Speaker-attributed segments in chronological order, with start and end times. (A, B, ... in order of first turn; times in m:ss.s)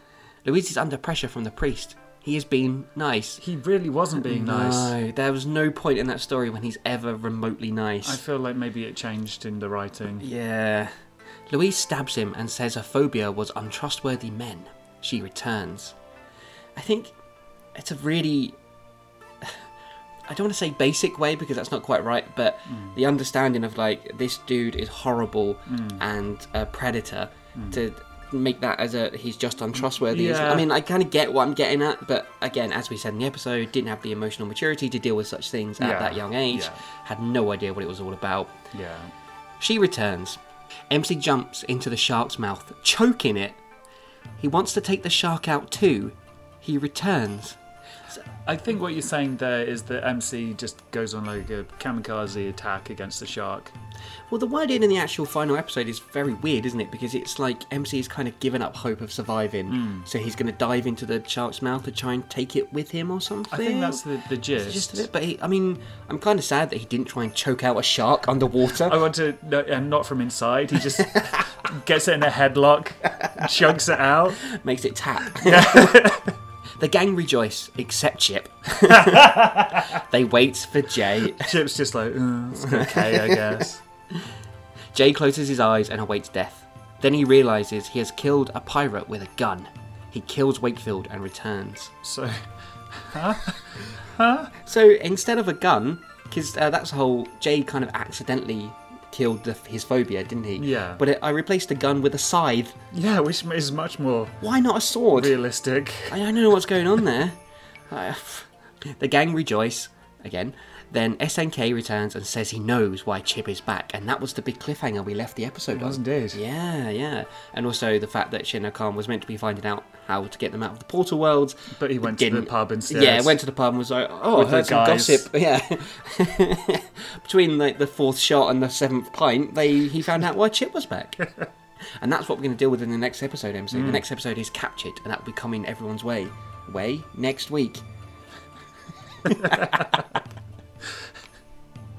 0:00.4-0:03.4 A
0:03.4-0:05.0 B
0:04.2-0:08.2 A
0:08.0-0:10.2 B
0:10.2-0:10.9 A
0:11.5-0:15.9 A
0:16.8-0:17.1 A
0:17.7-0:18.6 A
0:20.3-0:38.6 A
0:22.7-0:23.0 B
0:25.7-0:26.0 B
0:27.5-0:27.8 B
0:29.9-0:30.7 B
0:35.8-0:36.8 B
0:38.7-0:39.1 B
0:39.6-0:40.4 A
0:40.9-0:43.6 A
0:44.4-0:47.6 A
0:48.1-0:53.7 B
0:54.3-1:04.0 A
0:59.7-1:00.1 B
1:03.5-1:05.0 B
1:04.6-1:09.0 A
1:08.8-1:14.4 B
1:14.4-1:16.2 A
1:15.4-1:16.3 B
1:16.8-1:21.5 A
1:18.9-1:20.0 B
1:21.3-1:23.8 B
1:22.6-1:23.4 A
1:24.9-1:31.9 A
1:32.0-1:34.5 B
1:34.6-1:42.8 A
1:40.6-1:41.0 B
1:42.9-1:44.4 B
1:44.4-1:45.4 A
1:45.1-1:46.2 B
1:46.1-1:47.4 A
1:47.9-2:11.4 A
1:55.7-1:56.4 B
2:01.7-2:03.4 B
2:04.3-2:05.3 B
2:12.0-2:17.8 A
2:13.7-2:14.0 B
2:19.2-2:20.0 A
2:19.4-2:19.8 B